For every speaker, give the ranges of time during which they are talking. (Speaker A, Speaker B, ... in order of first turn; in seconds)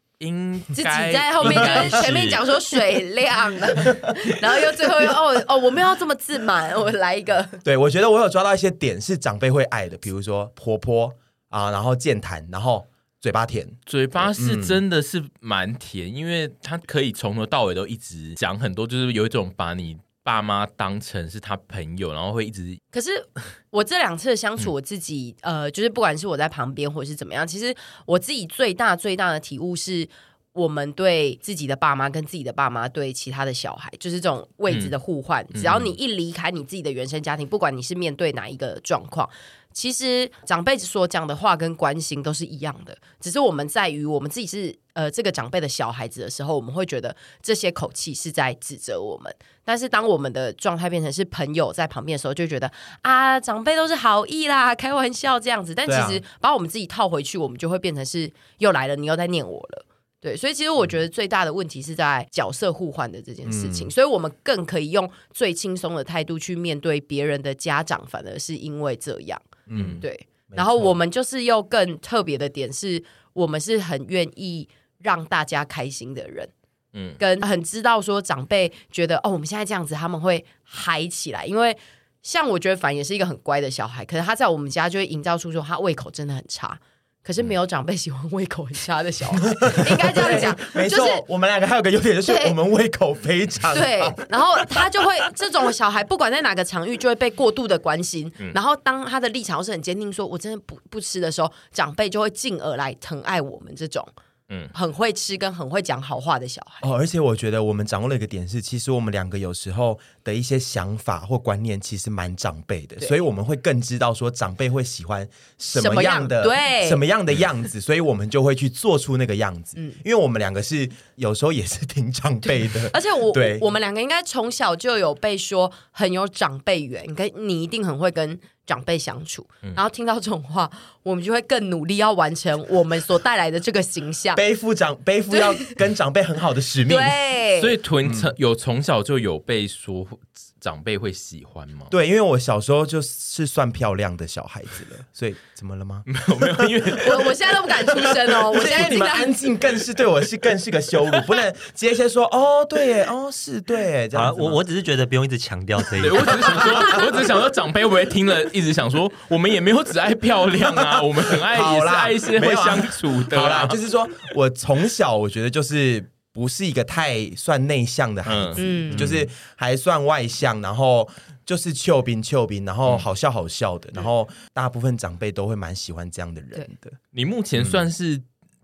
Speaker A: 0.2-2.4, 13.9-22.8, 35.5-35.9, 76.9-77.2, 137.6-141.9, 146.1-147.5, 156.0-163.8, 168.2-169.2, 177.1-178.2
Speaker B: 0.7-7.6, 22.9-76.5, 77.2-91.2, 92.2-92.5, 93.7-104.1, 104.7-106.8, 115.7-117.0, 122.9-134.4, 135.3-135.7, 136.9-137.8, 147.0-149.4, 168.6-169.0
Speaker C: 1.4-2.3, 3.8-4.3, 7.6-14.8, 55.9-56.2, 63.4-63.9, 69.7-70.9, 89.4-94.8, 106.8-123.7, 134.3-137.2, 138.0-138.3, 141.9-146.9, 147.9-154.6, 156.4-157.0, 160.8-177.0, 177.6-177.8
Speaker D: 154.1-156.9